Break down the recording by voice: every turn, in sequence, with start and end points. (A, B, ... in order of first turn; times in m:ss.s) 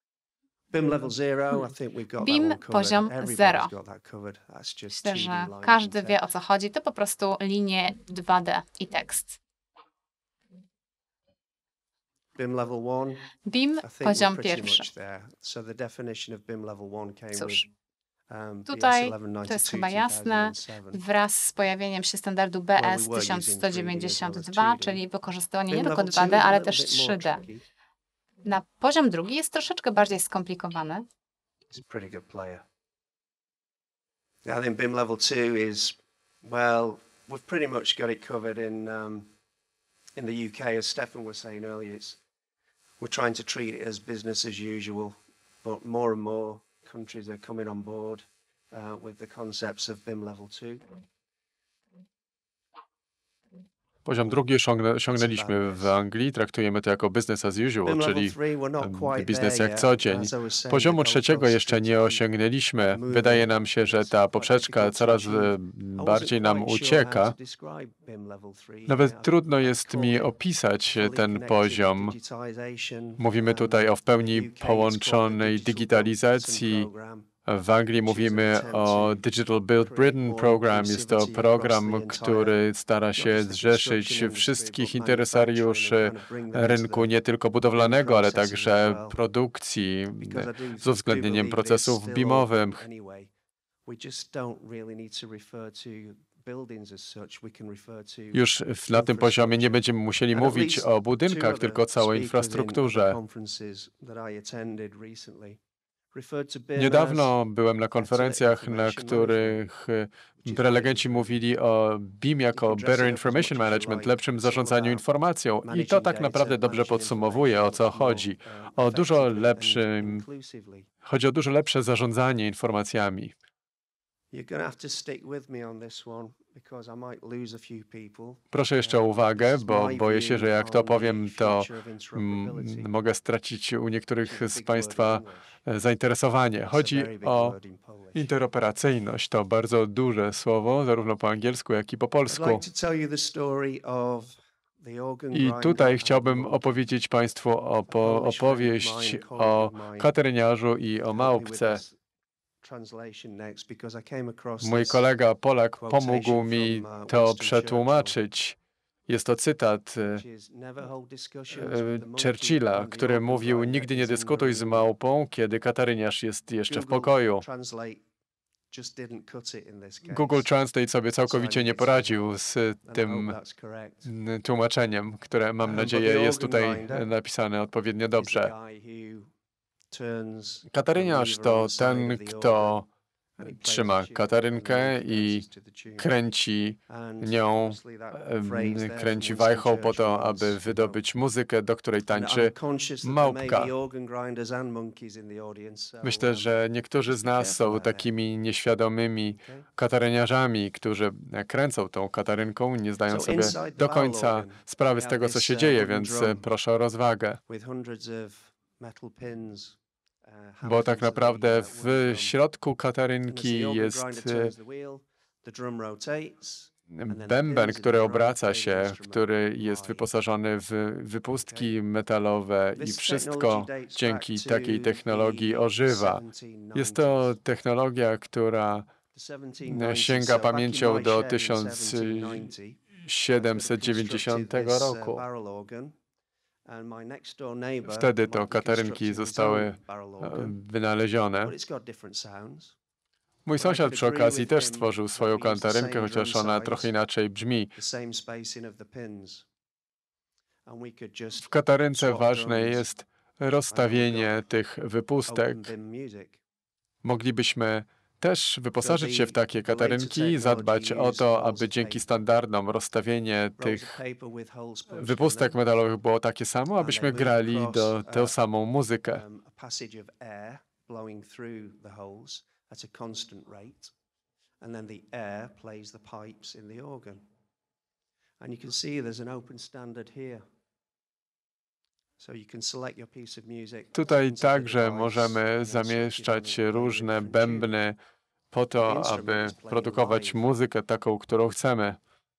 0:00.7-0:06.2 A
0:02.2-0:03.7 B
0:04.9-0:09.4 B
0:12.4-0:17.7 A
0:13.4-0:14.9 B
0:17.3-0:17.7 B
0:18.3-0:21.0 A
0:18.7-0:27.4 B
0:22.8-0:25.0 A
0:25.7-0:27.6 A
0:28.4-0:31.1 B
0:31.7-0:32.6 A
0:34.4-0:39.3 A
0:40.2-0:42.2 A
0:43.0-0:50.8 A
0:54.0-1:07.4 C
0:55.1-0:56.0 A
0:57.8-1:02.2 A
1:02.9-1:10.3 A
1:08.9-1:12.2 C
1:10.9-1:17.3 A
1:13.2-1:16.9 C
1:17.5-1:32.8 C
1:18.0-1:19.2 A
1:19.8-1:22.6 A
1:23.1-1:27.2 A
1:27.7-1:29.2 A
1:30.2-1:33.3 A
1:33.9-1:45.6 A
1:38.3-1:43.2 C
1:46.1-1:47.3 A
1:46.8-2:00.2 C
1:48.0-1:49.6 A
1:50.4-1:51.4 A
1:52.5-1:55.0 A
1:55.6-2:00.9 A
2:01.0-2:03.3 C
2:04.3-2:12.9 A
2:08.5-2:17.6 C
2:14.2-2:15.6 A
2:16.6-2:18.3 A
2:18.2-2:22.6 C
2:22.3-2:26.8 A
2:25.3-2:31.8 C
2:27.9-2:30.1 A
2:31.1-2:32.0 A
2:32.6-2:35.1 A
2:34.6-2:40.2 C
2:35.8-2:38.2 A
2:40.0-2:44.9 A
2:41.6-2:47.4 C
2:46.7-2:48.0 A
2:48.7-2:50.5 A
2:50.1-2:53.4 C
2:51.2-2:54.1 A
2:54.1-2:58.5 C
2:55.6-2:57.1 A
2:58.2-2:59.3 A
2:59.9-3:02.8 A
3:00.7-3:02.9 C
3:03.4-3:06.1 A
3:03.4-3:05.4 C
3:06.0-3:13.7 C
3:06.9-3:11.0 A
3:12.1-3:18.1 A
3:16.0-3:27.4 C
3:19.3-3:19.7 A
3:23.1-3:26.5 A
3:27.5-3:32.4 A
3:30.6-3:34.5 C
3:33.2-3:40.1 A
3:36.9-3:46.2 C
3:41.4-3:41.8 A
3:42.8-3:47.4 A
3:46.7-3:48.9 C
3:49.1-3:56.0 A
3:49.7-3:55.2 C
3:56.7-4:00.6 A
3:57.9-4:01.5 C
4:01.4-4:02.8 A
4:03.4-4:07.7 C
4:03.6-4:06.9 A
4:07.8-4:09.4 A
4:10.7-4:12.9 A
4:11.4-4:15.7 C
4:13.7-4:14.4 A
4:15.3-4:16.4 A
4:17.0-4:24.0 C
4:18.8-4:22.2 A
4:23.6-4:25.6 A
4:24.9-4:29.2 C
4:26.8-4:28.4 A
4:29.1-4:33.9 A
4:34.6-4:37.3 A
4:38.4-4:40.4 A
4:42.2-4:47.7 A
4:43.9-4:48.0 C
4:48.5-4:52.0 C
4:48.7-4:50.5 A